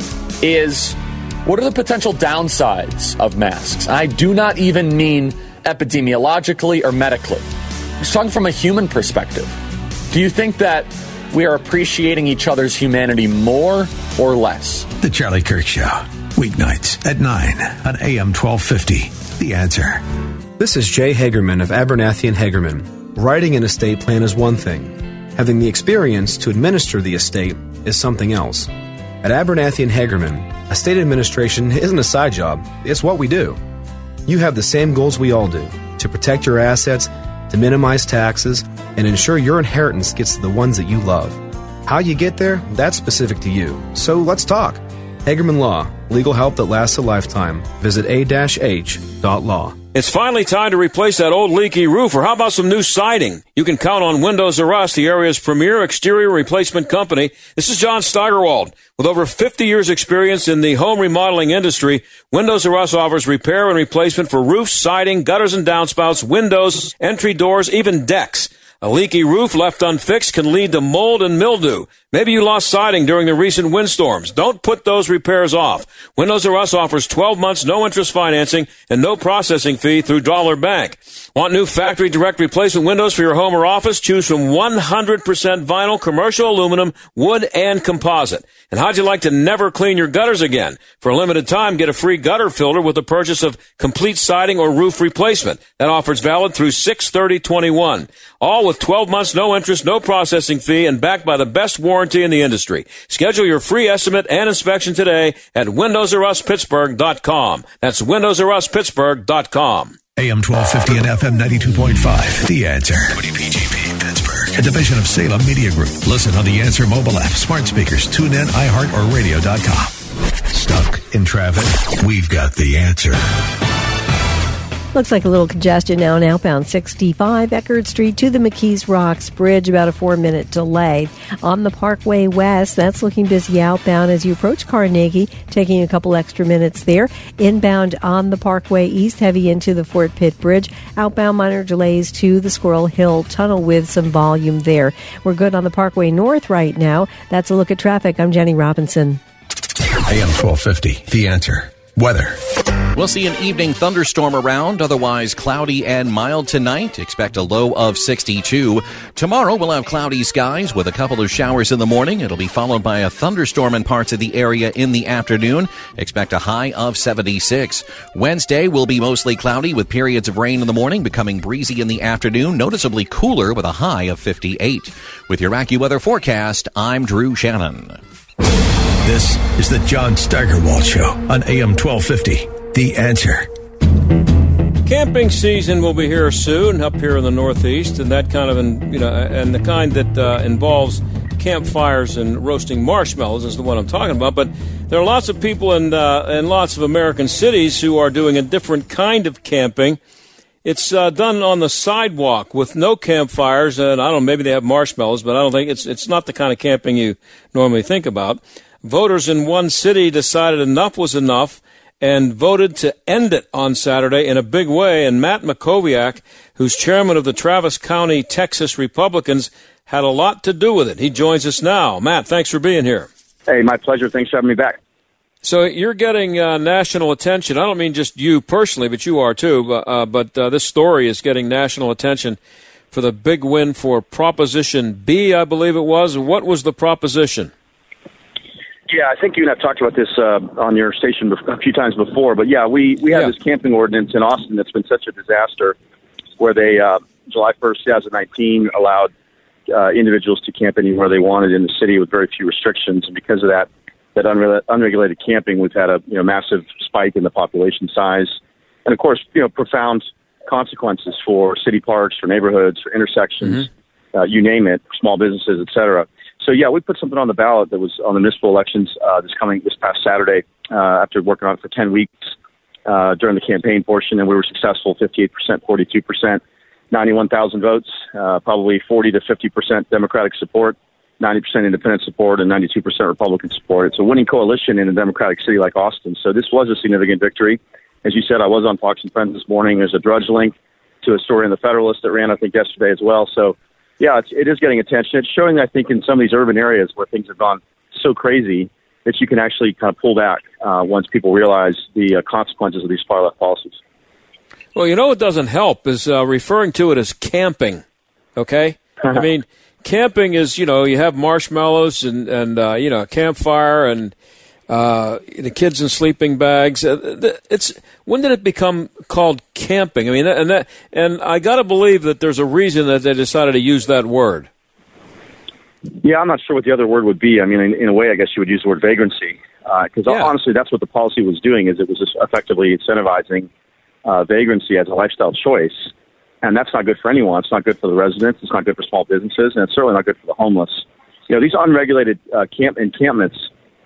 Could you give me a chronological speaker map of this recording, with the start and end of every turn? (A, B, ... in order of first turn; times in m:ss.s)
0:00.4-0:07.5 A
0:08.0-0:09.6 A
0:10.1-0:14.9 A
0:15.0-0:20.0 B
0:20.6-0:28.7 C
0:29.2-0:33.6 C
0:34.2-0:49.8 C
0:49.9-1:50.0 D
1:50.2-2:00.0 B
2:00.5-2:03.2 B
2:04.9-2:29.2 E
2:30.0-2:32.4 B
2:32.9-2:58.0 F
2:59.0-3:03.5 B
3:04.8-3:20.0 D
3:20.6-3:43.1 D
3:43.5-3:44.8 G
3:45.4-3:52.4 D
3:52.9-3:57.5 D
3:58.9-4:05.7 G
4:06.4-4:09.1 G
4:09.7-4:32.3 G
4:32.8-5:03.8 G
5:04.7-5:07.8 D
5:08.4-5:14.1 D
5:09.0-5:09.3 G
5:14.7-5:24.5 D
5:26.0-5:33.5 G
5:34.0-5:35.9 G
5:36.4-5:43.5 G